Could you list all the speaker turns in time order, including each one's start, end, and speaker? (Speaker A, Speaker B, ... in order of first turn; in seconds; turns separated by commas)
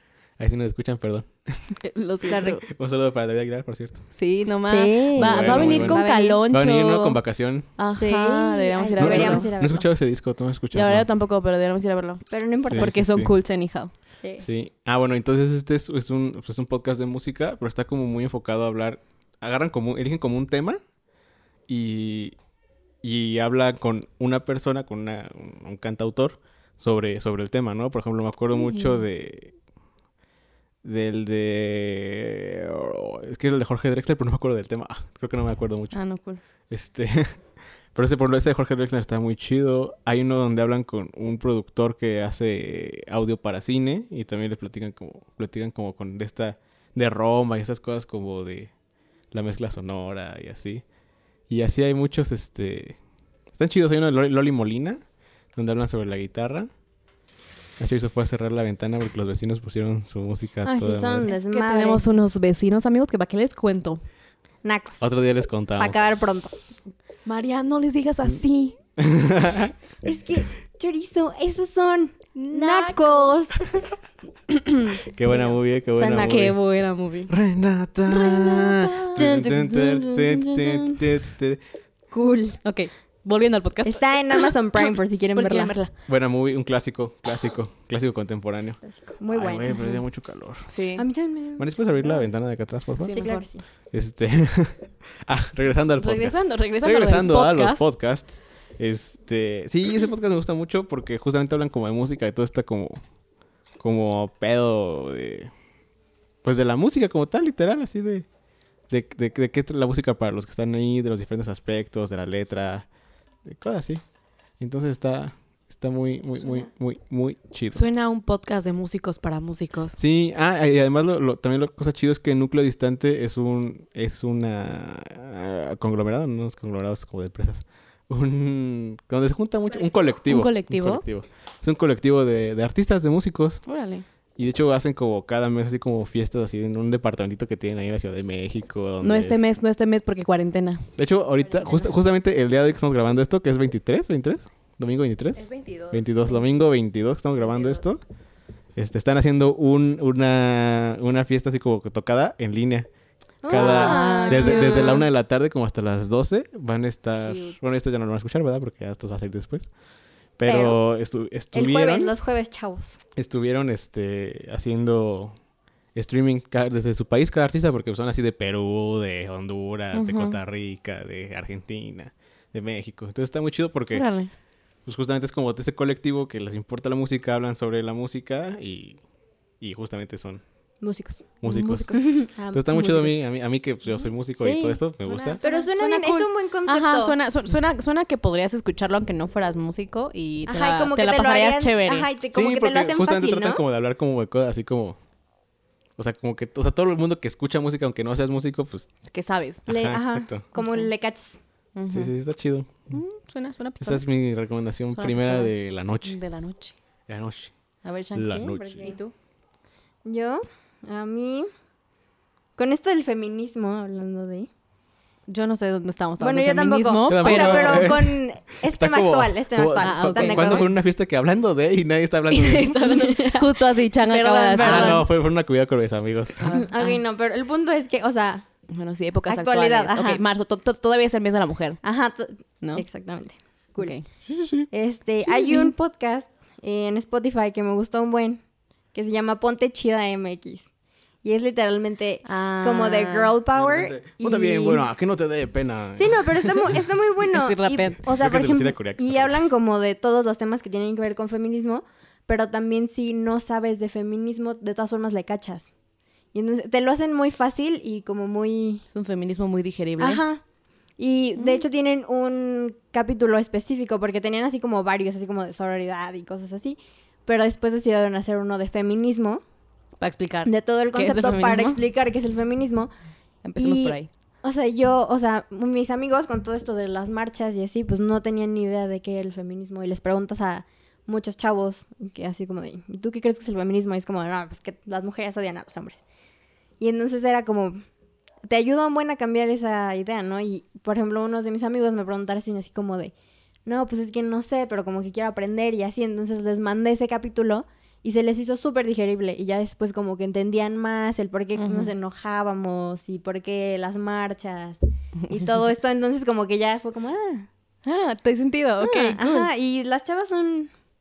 Speaker A: 0.4-1.7, Speaker B: 1.8-2.6, Speaker C: 2.3-2.5, Speaker A: 2.3-4.0, Speaker B: 4.1-7.2, Speaker C: 4.7-6.4, Speaker A: 5.2-7.7, Speaker B: 7.8-9.5, Speaker C: 8.0-9.9, Speaker A: 9.0-11.1, Speaker B: 10.7-13.9, Speaker C: 12.3-12.9, Speaker A: 12.7-13.3, Speaker C: 14.2-14.4, Speaker A: 14.4-20.8, Speaker A: 21.7-22.4, Speaker A: 23.0-29.6, Speaker C: 28.5-29.0, Speaker A: 30.8-36.0, Speaker B: 35.9-36.4, Speaker A: 36.7-37.4, Speaker A: 38.0-48.7, Speaker A: 49.3-50.8, Speaker A: 51.5-53.0, Speaker A: 53.5-55.0, Speaker A: 55.6-56.7, Speaker A: 57.8-61.3, Speaker C: 60.6-62.0, Speaker B: 61.3-64.0, Speaker C: 64.6-65.1, Speaker A: 65.0-66.7, Speaker C: 65.8-66.6, Speaker B: 67.3-68.8, Speaker A: 69.0-69.8, Speaker C: 70.0-73.6, Speaker B: 72.3-73.6, Speaker A: 75.1-76.6, Speaker C: 75.2-76.6, Speaker B: 76.2-77.3, Speaker A: 77.3-81.6, Speaker B: 78.1-79.2, Speaker C: 79.1-81.0, Speaker C: 82.1-82.6, Speaker B: 82.6-85.9, Speaker C: 83.8-85.7, Speaker A: 86.1-90.7, Speaker C: 88.8-90.0, Speaker B: 90.7-91.0, Speaker C: 91.0-91.7, Speaker A: 91.6-93.2, Speaker B: 93.0-93.5, Speaker C: 93.1-93.6, Speaker A: 93.9-103.0, Speaker B: 96.0-97.8, Speaker A: 103.8-105.5, Speaker A: 106.4-108.3, Speaker A: 108.9-112.9, Speaker A: 113.5-114.0, Speaker A: 114.6-117.8, Speaker B: 117.7-120.0, Speaker A: 120.0-133.6, Speaker B: 130.3-131.0, Speaker B: 133.7-134.1, Speaker A: 134.4-139.4, Speaker B: 139.0-140.9, Speaker A: 141.0-148.0, Speaker B: 145.4-146.3, Speaker B: 147.4-147.8, Speaker A: 148.8-152.9, Speaker C: 153.4-155.1, Speaker A: 153.5-159.7, Speaker B: 153.5-155.1, Speaker B: 157.2-157.6, Speaker A: 160.4-162.1, Speaker C: 160.4-160.8, Speaker C: 161.5-163.0, Speaker A: 163.2-165.3, Speaker A: 165.9-174.1, Speaker B: 169.9-170.4, Speaker B: 173.9-174.3, Speaker A: 174.9-179.0, Speaker A: 179.6-180.4, Speaker C: 180.8-181.2, Speaker A: 181.4-182.0, Speaker B: 181.4-182.2, Speaker C: 181.9-183.2, Speaker A: 182.5-185.4, Speaker C: 184.3-187.2, Speaker B: 185.2-192.1, Speaker C: 190.5-193.6, Speaker A: 192.3-195.0, Speaker A: 196.0-198.9, Speaker B: 199.1-199.6, Speaker A: 199.7-200.4, Speaker C: 199.7-201.4, Speaker B: 200.6-200.9, Speaker B: 201.8-202.1, Speaker A: 201.9-203.0, Speaker B: 202.9-204.1, Speaker A: 203.8-206.2, Speaker B: 204.9-206.8, Speaker A: 207.1-207.5, Speaker B: 207.8-209.1, Speaker A: 208.1-208.9, Speaker C: 208.3-209.0, Speaker C: 210.1-211.5, Speaker C: 212.6-214.5, Speaker B: 215.3-218.0, Speaker C: 216.2-220.7, Speaker A: 217.1-222.8, Speaker B: 219.8-220.7, Speaker B: 222.3-225.0, Speaker C: 222.8-225.1, Speaker A: 224.6-226.6, Speaker B: 226.4-227.0, Speaker C: 226.5-228.4, Speaker B: 228.7-231.8, Speaker C: 229.3-230.2, Speaker C: 231.8-234.0, Speaker B: 233.8-234.1, Speaker A: 234.3-234.7, Speaker C: 234.7-238.4, Speaker B: 235.2-235.7, Speaker C: 238.9-240.7, Speaker C: 241.2-244.9, Speaker B: 242.2-243.3, Speaker A: 243.5-246.8, Speaker C: 246.0-255.7, Speaker B: 247.3-248.0, Speaker A: 248.0-249.3, Speaker C: 256.3-258.8, Speaker B: 258.9-260.2, Speaker C: 260.0-260.4, Speaker C: 261.0-269.4, Speaker B: 270.0-271.8, Speaker C: 270.4-272.9, Speaker B: 273.4-274.1, Speaker C: 273.6-286.0, Speaker C: 286.8-287.8, Speaker C: 288.5-293.1, Speaker C: 293.7-307.5, Speaker B: 301.6-301.9, Speaker B: 307.9-309.5, Speaker C: 308.8-310.7